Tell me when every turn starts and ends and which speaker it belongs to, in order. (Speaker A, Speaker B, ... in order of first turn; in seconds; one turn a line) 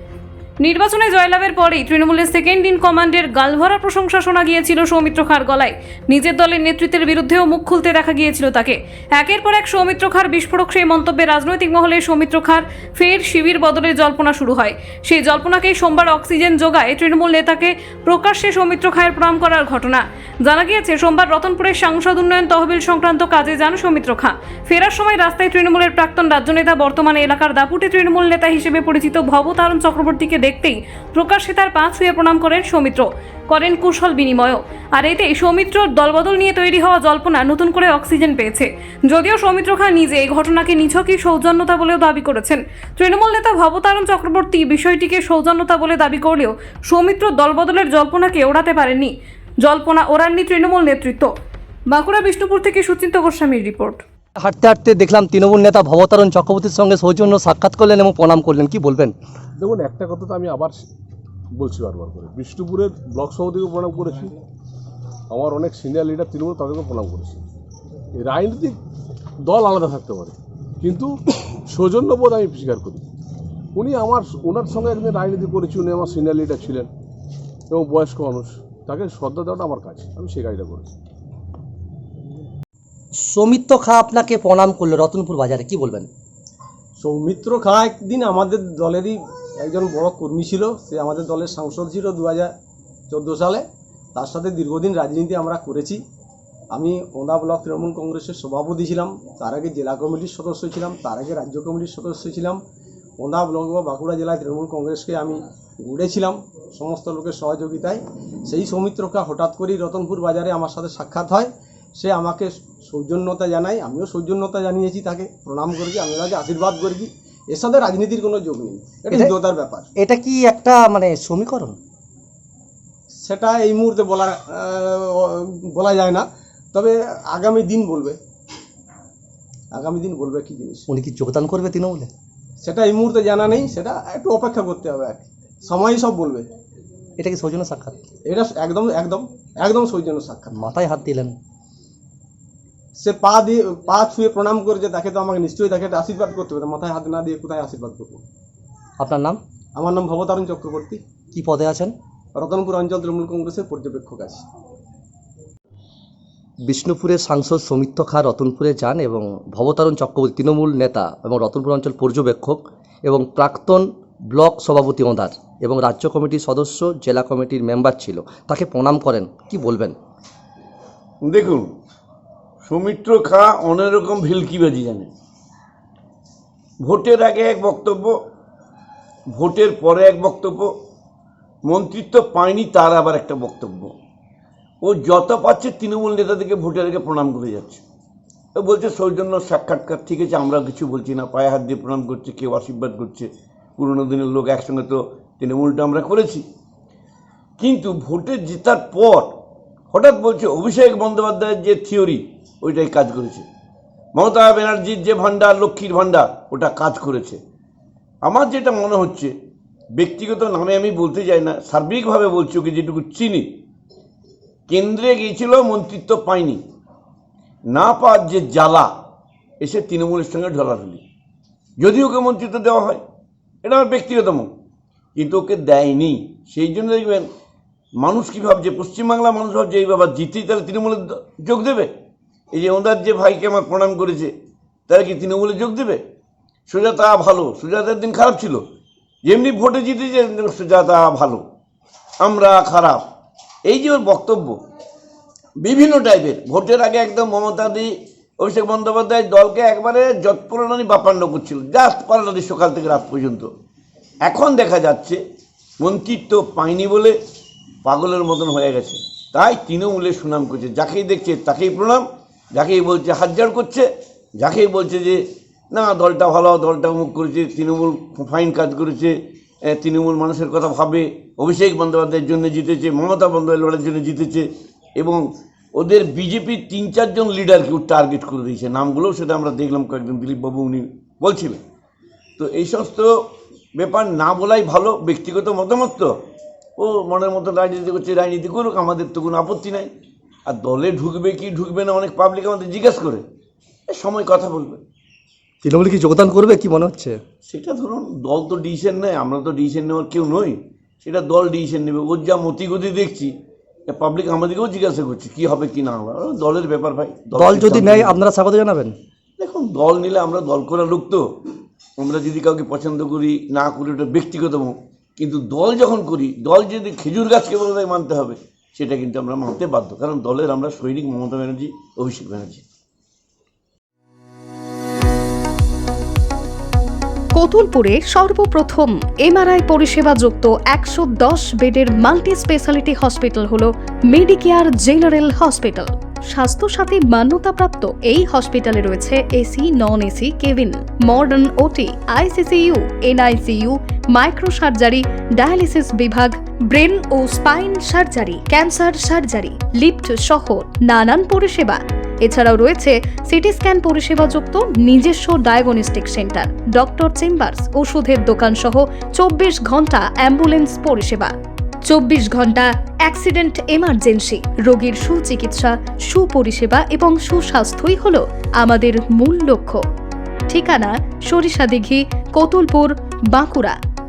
Speaker A: 0.6-51.3
Speaker A: 51.9-54.0
Speaker B: 54.4-59.1
Speaker C: 59.6-60.9
Speaker C: 61.5-64.4
Speaker C: 65.3-67.4
Speaker C: 68.2-68.8
Speaker C: 69.4-73.1
Speaker C: 73.8-76.9
Speaker C: 77.7-80.9
Speaker B: 83.2-86.1
Speaker D: 87.0-92.5
Speaker D: 93.1-96.0
Speaker D: 96.7-102.6
Speaker D: 103.2-119.9
Speaker B: 120.0-121.8
Speaker D: 123.2-128.2
Speaker D: 129.7-130.8
Speaker B: 130.9-132.1
Speaker D: 132.6-136.5
Speaker B: 137.2-138.0
Speaker D: 138.2-140.5
Speaker B: 140.5-141.3
Speaker D: 143.0-148.2
Speaker B: 149.0-149.4
Speaker D: 149.8-151.0
Speaker B: 151.3-151.9
Speaker D: 152.3-154.4
Speaker B: 156.7-169.9
Speaker E: 171.2-171.7
Speaker E: 172.6-175.1
Speaker E: 176.8-178.1
Speaker E: 179.3-180.7
Speaker E: 181.7-183.9
Speaker E: 184.8-187.8
Speaker E: 188.6-196.4
Speaker E: 197.6-199.3
Speaker E: 199.9-203.4
Speaker E: 204.2-207.4
Speaker E: 208.2-209.3
Speaker E: 210.0-213.4
Speaker E: 214.7-216.6
Speaker E: 217.7-218.9
Speaker E: 219.6-221.0
Speaker E: 221.8-223.0
Speaker E: 223.6-224.5
Speaker E: 225.2-227.3
Speaker E: 228.0-231.9
Speaker E: 232.6-234.3
Speaker E: 234.9-236.0
Speaker E: 236.7-238.6
Speaker E: 239.2-241.4
Speaker E: 242.2-243.0
Speaker E: 243.7-244.6
Speaker E: 245.6-253.5
Speaker E: 254.2-255.2
Speaker E: 255.8-257.1
Speaker E: 257.8-262.0
Speaker E: 262.6-263.9
Speaker E: 264.4-269.1
Speaker E: 269.7-274.5
Speaker E: 275.0-275.2
Speaker E: 275.8-281.6
Speaker E: 282.4-283.1
Speaker E: 283.8-286.1
Speaker E: 286.8-289.9
Speaker E: 290.5-293.2
Speaker E: 293.9-294.8
Speaker B: 295.6-297.2
Speaker E: 297.5-303.3
Speaker E: 303.9-308.1
Speaker B: 307.3-308.9
Speaker E: 309.4-311.2
Speaker E: 312.0-322.6
Speaker F: 327.4-361.3
Speaker F: 361.9-369.8
Speaker F: 370.5-373.8